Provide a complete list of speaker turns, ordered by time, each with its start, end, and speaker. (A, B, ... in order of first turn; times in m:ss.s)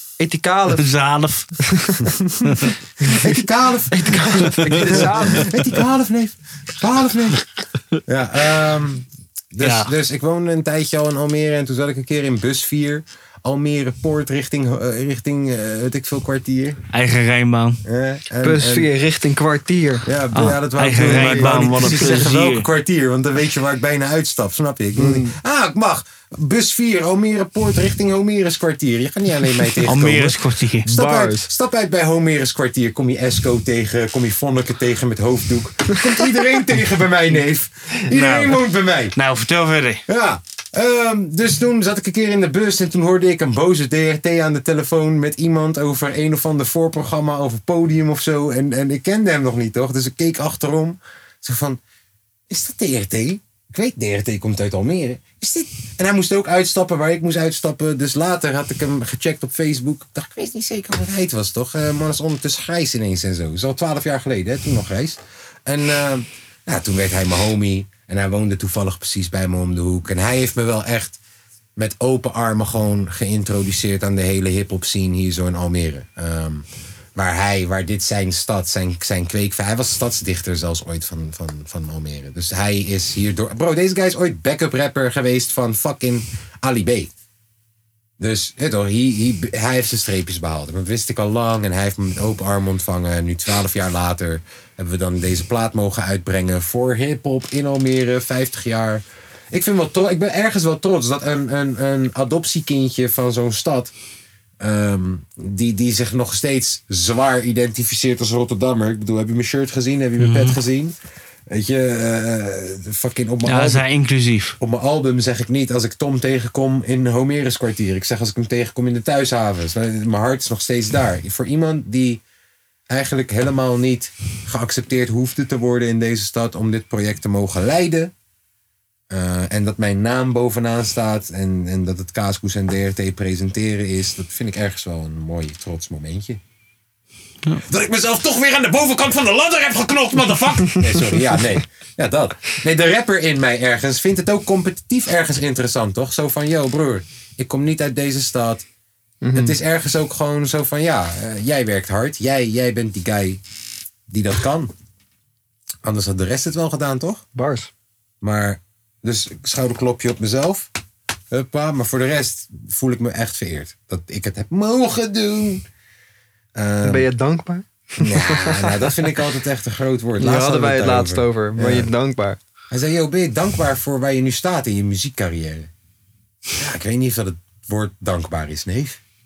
0:00.2-0:00.9 A
0:00.8-0:01.5 B
0:01.6-0:02.1 A
0:02.1-0:07.5 C
0:02.4-0:02.8 B
0:03.9-0:05.6 A
0:04.5-0:05.4 B
0:08.1-0:16.8 C
0:09.6-0:09.9 B
0:16.9-0:17.8 B
0:17.8-0:18.9 C
0:18.4-0:20.1 A
0:20.1-0:39.2 C
0:20.3-0:22.7 B
0:21.0-0:22.2 A
0:25.0-0:25.4 A
0:29.8-0:30.9 B
0:30.9-0:31.5 A
0:35.9-0:36.4 A
0:38.1-0:38.6 B
0:39.1-0:40.0 B
0:40.1-0:51.8 C
0:52.5-1:11.2 C
1:11.8-1:27.1 C
1:28.2-1:43.9 C
1:44.6-1:51.0 C
1:50.2-1:50.6 B
1:51.5-1:53.8 C
1:53.5-1:54.6 B
1:54.6-2:02.2 C
2:02.9-2:08.1 C
2:09.1-2:16.4 C
2:17.6-2:28.6 C
2:29.2-2:29.6 A
2:29.3-2:33.4 C
2:34.1-2:34.7 C
2:35.8-2:37.2 C
2:37.4-2:37.7 A
2:38.2-2:40.7 C
2:41.3-2:45.6 C
2:46.6-2:47.1 C
2:46.8-2:49.2 A
2:48.0-2:51.9 C
2:50.2-2:52.4 A
2:52.7-2:55.7 C
2:56.6-2:59.0 C